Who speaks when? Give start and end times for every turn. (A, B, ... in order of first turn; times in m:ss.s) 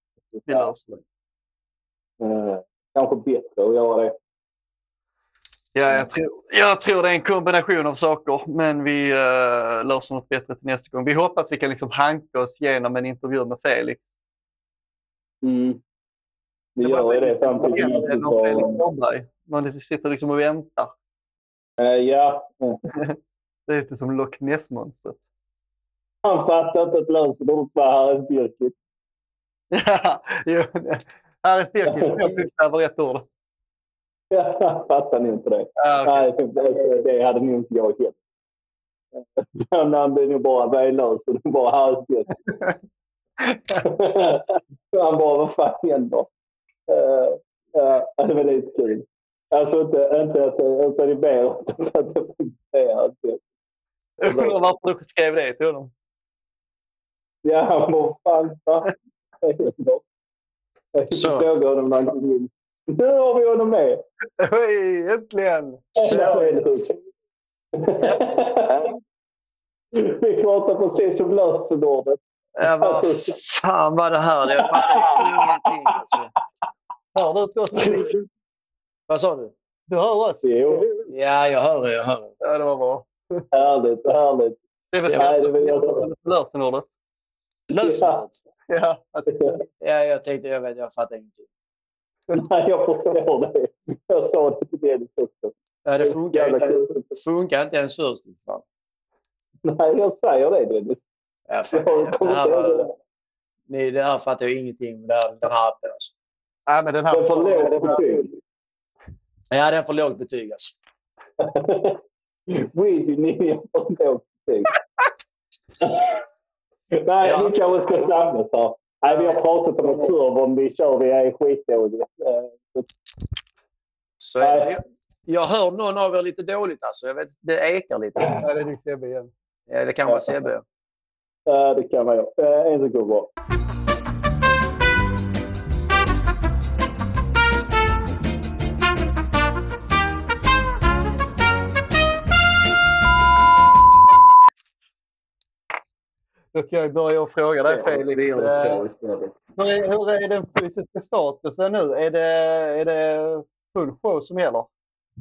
0:00.3-0:00.8 A
0:00.5-0:01.0 B
0:02.2-0:04.1 A
0:05.7-0:14.0 B
0:15.4-0:15.8 A
0:16.8-0:18.8 A
0:16.8-0:20.9 B
0:21.8-0:22.8 A
0:22.9-0:25.2 B
0:26.2-0:28.7 A
0:29.7-0:33.2 B
0:31.9-0:32.2 A
0:34.3-0:38.2 A
0:35.8-0:36.3 B
0:39.4-0:42.3 A
0:43.8-0:46.3 A
0:46.9-0:53.4 A
0:54.2-0:55.9 B
0:54.3-0:54.6 A
0:57.4-1:00.0 A
1:00.9-1:04.0 A
1:01.1-1:01.5 C
1:04.4-1:05.9 B
1:06.0-1:06.9 A
1:06.0-1:06.8 C
1:07.8-1:08.8 A
1:08.0-1:08.6 C
1:09.9-1:13.4 A
1:12.6-1:16.3 C
1:14.6-1:15.5 A
1:17.1-1:18.1 B
1:19.1-1:19.5 C
1:19.9-1:20.5 B
1:20.4-1:20.8 A
1:21.0-1:22.3 C
1:22.4-1:23.1 B
1:23.5-1:24.5 A
1:24.9-1:26.9 B
1:25.1-1:26.0 A
1:27.7-1:28.4 C
1:27.8-1:28.2 A
1:28.7-1:29.3 B
1:29.3-1:29.6 A
1:29.8-1:31.4 C
1:32.3-1:37.0 A
1:35.8-1:38.6 C
1:39.6-1:41.0 A
1:41.5-1:42.8 C
1:41.7-1:42.9 A
1:43.7-1:46.1 C
1:46.7-1:48.0 B
1:47.1-1:48.3 A
1:49.5-1:50.7 C
1:51.4-1:54.7 A
1:55.8-1:56.2 A
1:56.9-2:02.9 A
1:57.2-1:57.5 C
2:04.2-2:08.5 C
2:04.4-2:04.8 A
2:08.2-2:09.3 B
2:09.7-2:10.6 C
2:10.0-2:10.3 A
2:11.5-2:13.3 A
2:26.5-2:28.8 B
2:27.6-2:29.3 A
2:29.6-2:34.7 B